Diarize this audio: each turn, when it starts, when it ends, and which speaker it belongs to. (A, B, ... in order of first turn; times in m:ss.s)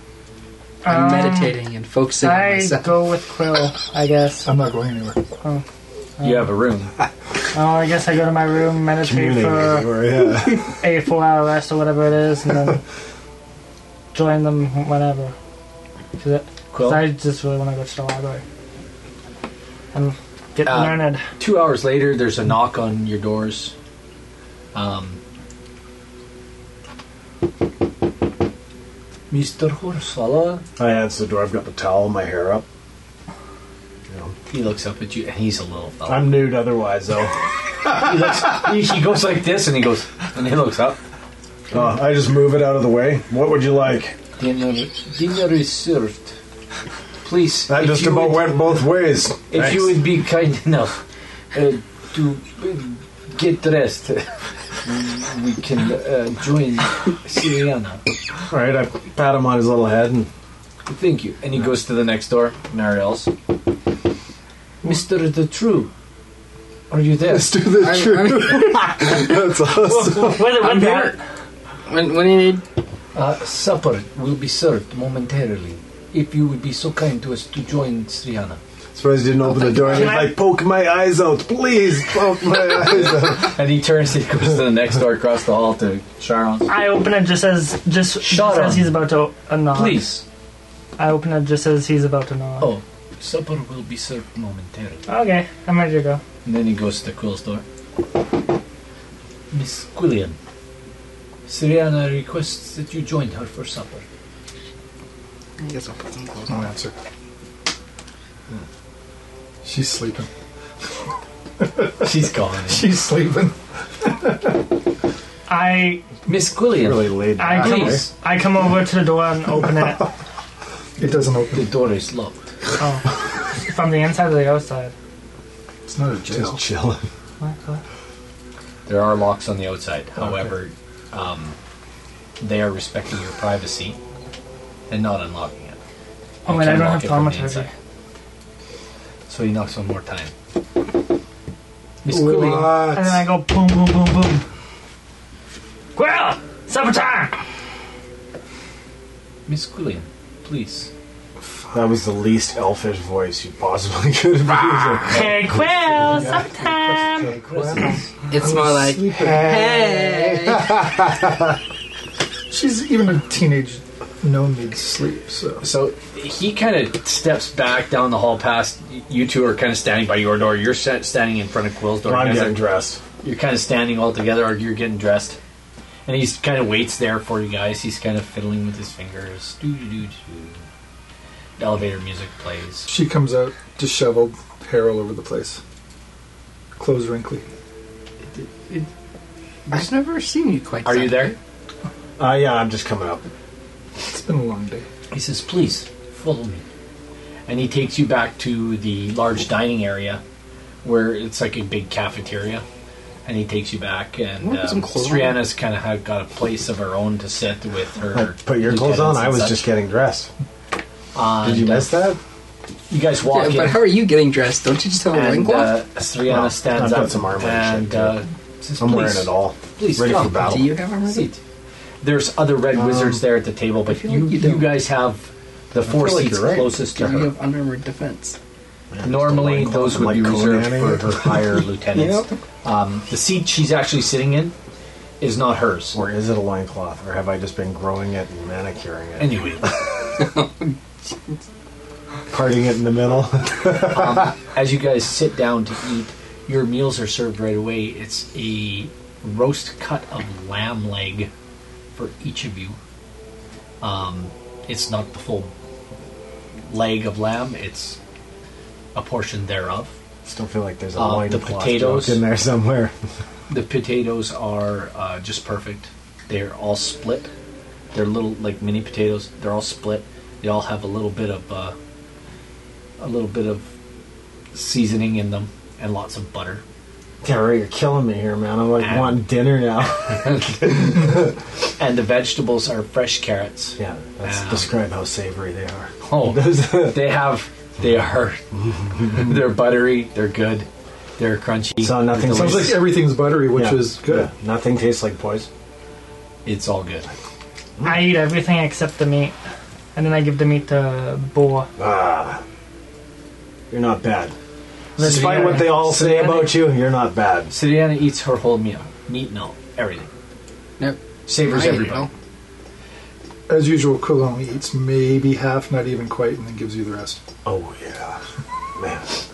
0:00.8-0:01.6 A
0:00.8-0:02.9 B
0:02.2-0:04.5 A
0:04.4-0:05.2 C
0:06.2-0:06.5 A
0:06.2-0:06.9 D
0:07.5-0:09.9 A
0:09.0-0:10.7 E
0:10.8-0:12.8 A
0:14.1-0:15.3 A
0:16.2-0:18.4 A
0:16.7-0:17.1 D
0:19.9-0:21.2 A
0:20.6-0:23.7 D
0:24.7-0:25.2 D
0:29.3-0:30.6 D
0:30.8-0:32.6 E
0:34.1-0:34.3 E
0:34.5-0:36.4 D
0:36.1-0:37.4 E
0:37.9-0:41.0 D
0:41.7-0:44.2 E
0:44.4-0:46.4 D
0:47.2-0:48.7 D
0:47.7-0:50.0 E
0:49.5-0:51.0 D
0:51.5-0:58.0 D
0:58.5-1:00.3 E
1:00.9-1:03.3 D
1:04.8-1:05.9 D
1:06.9-1:07.6 D
1:07.3-1:10.6 E
1:07.8-1:09.2 B
1:10.0-1:11.2 A
1:10.4-1:11.2 B
1:11.8-1:12.6 B
1:13.1-1:18.6 D
1:18.9-1:23.6 E
1:19.8-1:20.4 A
1:22.9-1:26.7 D
1:26.7-1:30.1 A
1:28.2-1:29.0 D
1:29.7-1:30.2 D
1:31.0-1:32.7 A
1:32.6-1:35.0 D
1:35.1-1:36.2 A
1:36.4-1:37.6 D
1:39.5-1:40.4 D
1:41.5-1:44.0 D
1:45.6-1:46.6 B
1:46.5-1:46.9 C
1:49.6-1:50.3 C
1:51.6-1:52.1 C
1:52.0-1:52.9 D
1:52.7-1:54.6 C
1:55.5-1:56.0 A
1:56.2-1:58.1 D
1:56.8-1:58.1 E
1:57.4-2:00.1 A
2:01.0-2:01.7 C
2:01.5-2:02.5 D
2:02.8-2:04.9 A
2:05.8-2:06.6 C
2:06.3-2:07.0 E
2:07.4-2:07.8 A
2:08.8-2:11.6 D
2:12.4-2:14.0 D
2:14.9-2:15.8 D
2:16.4-2:17.7 D
2:16.4-2:17.7 A
2:19.3-2:20.3 D
2:22.0-2:22.8 D
2:22.1-2:23.2 C
2:22.9-2:24.4 A
2:26.0-2:27.4 A
2:29.5-2:30.9 D
2:31.7-2:35.7 E
2:35.1-2:37.3 A
2:35.8-2:36.6 D
2:36.1-2:39.5 C
2:37.1-2:38.1 D
2:38.3-2:40.8 B
2:39.1-2:41.5 E
2:42.5-2:45.6 C
2:45.6-2:52.6 D
2:52.0-2:53.0 E
2:53.2-2:55.4 D
2:56.0-3:00.6 D
3:01.6-3:02.9 D
3:02.8-3:05.6 C
3:06.8-3:07.4 C
3:08.3-3:08.9 D
3:09.7-3:11.4 B
3:10.8-3:11.4 D
3:12.2-3:13.2 E
3:14.0-3:14.8 C
3:15.1-3:16.6 D
3:17.5-3:20.2 D
3:20.8-3:22.6 D
3:23.2-3:29.7 D
3:24.4-3:25.5 B
3:28.1-3:30.3 E
3:31.1-3:32.0 D
3:31.4-3:32.2 E
3:32.9-3:33.9 D
3:33.2-3:35.8 B
3:35.1-3:41.4 D
3:36.2-3:38.2 E
3:38.8-3:40.7 E
3:40.1-3:41.3 B
3:42.0-3:47.3 D
3:42.7-3:43.2 E
3:43.9-3:44.8 B
3:45.8-3:46.7 E
3:46.9-3:48.4 B
3:48.9-3:51.6 E
3:49.0-3:54.5 D
3:51.9-3:52.3 B
3:55.2-3:56.0 D
3:55.9-3:59.8 E
3:59.2-3:59.7 D
4:02.3-4:04.3 E
4:03.8-4:11.3 D
4:11.9-4:12.8 D
4:13.8-4:15.5 D
4:16.6-4:18.0 D
4:18.9-4:19.9 D
4:20.2-4:22.9 E
4:20.9-4:22.2 D
4:23.5-4:27.3 D
4:27.9-4:31.7 D
4:33.0-4:33.7 D
4:34.5-4:36.6 D
4:37.2-4:41.2 E
4:38.8-4:39.2 D
4:39.9-4:41.2 D
4:41.8-4:44.7 D
4:43.8-4:47.0 E
4:46.0-4:48.4 D
4:48.5-4:49.3 E
4:49.0-4:52.8 D
4:51.8-4:55.5 E
4:52.3-4:54.3 C
4:56.4-4:57.1 D
4:57.8-4:58.1 E
4:57.8-4:59.4 A
4:59.9-5:01.7 A
5:01.8-5:02.4 E
5:03.7-5:04.3 E
5:05.0-5:06.5 A
5:05.0-5:07.5 E
5:05.0-5:06.3 D
5:07.5-5:10.1 D
5:10.8-5:12.1 B
5:11.3-5:12.1 D
5:13.5-5:17.2 C
5:17.4-5:18.2 E
5:18.8-5:19.2 E